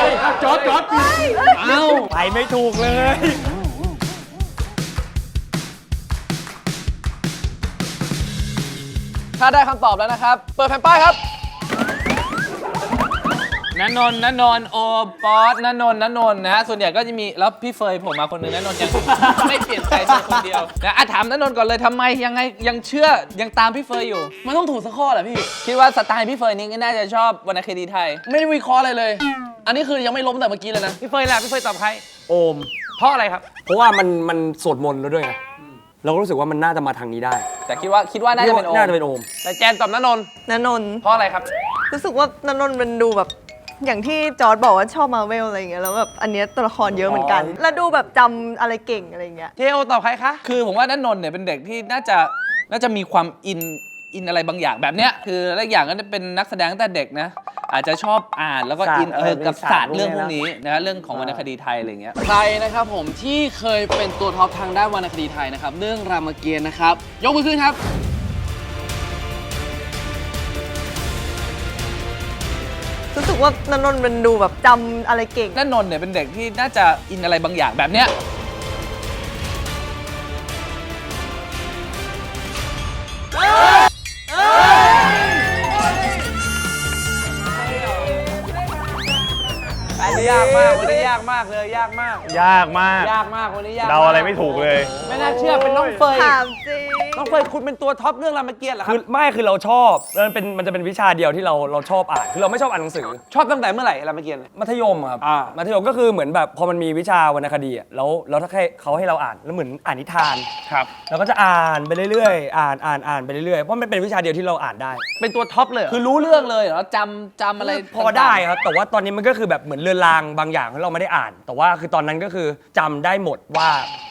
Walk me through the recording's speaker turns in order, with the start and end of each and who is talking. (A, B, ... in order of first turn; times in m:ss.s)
0:01.7-0:02.1 A
0:02.1-0:03.6 B
0:09.4-0:11.2 A
0:13.7-0:24.3 C
0:24.4-0:25.5 A
0:25.6-0:28.2 C
0:28.3-0:31.0 A
0:31.0-0:32.0 D
0:32.3-0:32.7 B
0:33.0-0:33.5 D
0:33.6-0:35.4 B
0:36.0-0:37.5 B
0:37.7-0:38.9 C
0:38.4-0:39.3 B
0:39.4-0:40.3 D
0:40.5-0:41.1 E
0:41.0-0:41.5 D
0:41.9-0:49.5 E
0:47.1-0:47.6 B
0:49.6-0:50.4 D
0:50.4-1:02.2 C
0:58.8-1:00.4 B
1:01.1-1:01.4 B
1:02.2-1:07.8 A
1:13.1-1:15.6 E
1:15.6-1:18.1 C
1:30.0-1:32.3 D
1:32.3-1:33.1 F
1:33.0-1:36.4 D
1:33.8-1:35.1 F
1:35.6-1:35.9 F
1:36.1-1:37.4 E
1:37.1-1:39.0 D
1:38.8-1:43.2 B
1:43.3-1:44.5 D
1:44.5-1:50.5 B
1:45.2-1:45.5 D
1:51.1-1:55.0 B
1:55.2-1:56.0 D
1:55.9-1:58.4 C
1:57.6-2:03.9 B